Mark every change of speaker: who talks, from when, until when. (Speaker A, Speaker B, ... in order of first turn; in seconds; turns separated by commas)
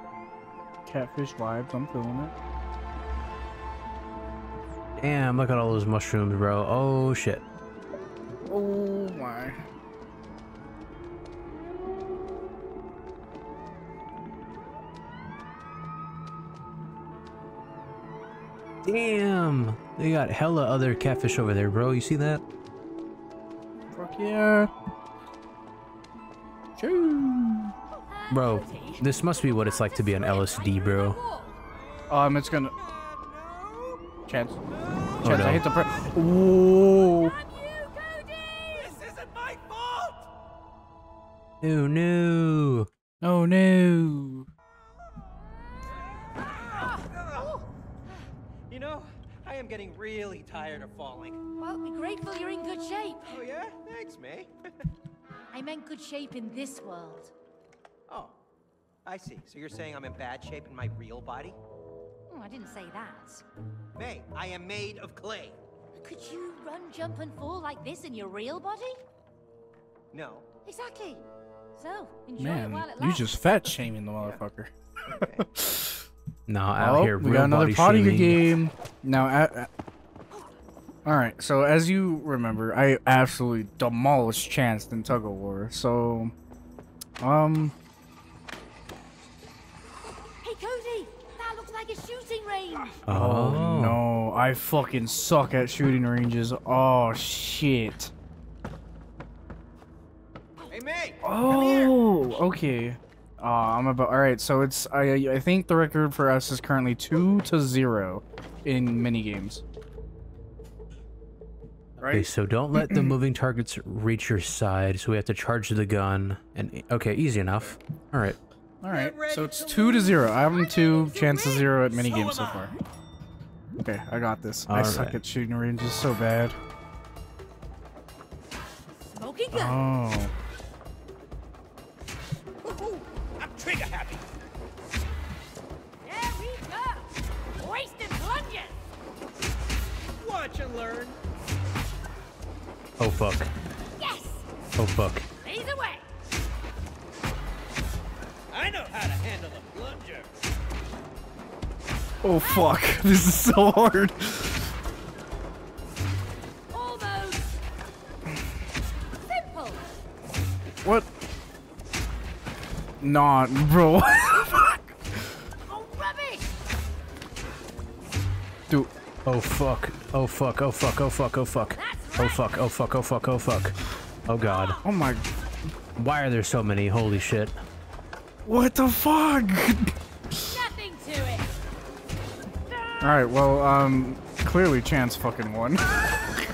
Speaker A: 0.9-2.3, Speaker B: 5.0-7.4, Speaker A: 8.5-9.6, Speaker B: 18.8-22.4, Speaker A: 23.9-24.7, Speaker A: 26.8-27.7, Speaker C: 27.9-31.6, Speaker B: 28.3-31.2, Speaker D: 31.8-34.1, Speaker A: 32.1-32.8, Speaker A: 34.3-34.6, Speaker D: 34.7-35.2, Speaker A: 35.2-37.4, Speaker B: 35.2-35.6, Speaker C: 37.0-39.0, Speaker D: 38.8-40.3, Speaker B: 41.6-42.9, Speaker A: 43.2-44.5, Speaker D: 45.9-47.6, Speaker C: 47.4-47.7, Speaker D: 48.7-51.4, Speaker C: 51.6-53.4, Speaker D: 53.3-54.5, Speaker C: 55.5-57.3, Speaker D: 58.1-58.4, Speaker D: 59.0-61.6, Speaker C: 62.3-63.4, Speaker D: 64.0-65.6, Speaker C: 66.0-69.0, Speaker D: 70.1-70.5, Speaker C: 70.7-71.2, Speaker C: 71.8-73.4, Speaker A: 72.4-76.1, Speaker D: 75.1-75.4, Speaker B: 76.5-78.5, Speaker A: 76.8-79.7, Speaker A: 81.0-86.3, Speaker A: 87.2-87.8, Speaker C: 90.4-93.0, Speaker B: 93.1-94.0, Speaker A: 93.1-98.1, Speaker D: 100.7-102.0, Speaker A: 101.2-109.6, Speaker A: 112.0-113.2, Speaker B: 112.1-118.4, Speaker A: 118.8-122.7, Speaker D: 118.9-120.3, Speaker C: 120.4-122.4, Speaker D: 122.1-122.7, Speaker A: 123.8-126.6, Speaker B: 124.7-125.2, Speaker C: 129.1-129.8, Speaker A: 129.5-130.3, Speaker D: 132.6-134.2, Speaker C: 136.1-138.9, Speaker D: 140.2-141.2, Speaker B: 143.0-143.5, Speaker C: 144.0-144.4, Speaker B: 144.8-145.3, Speaker C: 145.4-146.0, Speaker D: 148.5-150.3, Speaker A: 152.2-154.7, Speaker C: 152.4-152.8, Speaker C: 156.7-157.6, Speaker C: 159.3-159.9, Speaker A: 163.0-164.9, Speaker C: 165.7-166.5, Speaker B: 169.3-173.8, Speaker C: 171.8-172.4, Speaker B: 174.3-174.8, Speaker C: 174.4-174.8, Speaker A: 174.8-175.3, Speaker B: 176.0-177.5, Speaker A: 178.4-180.6, Speaker C: 180.4-181.5, Speaker C: 182.7-183.2, Speaker A: 183.0-185.9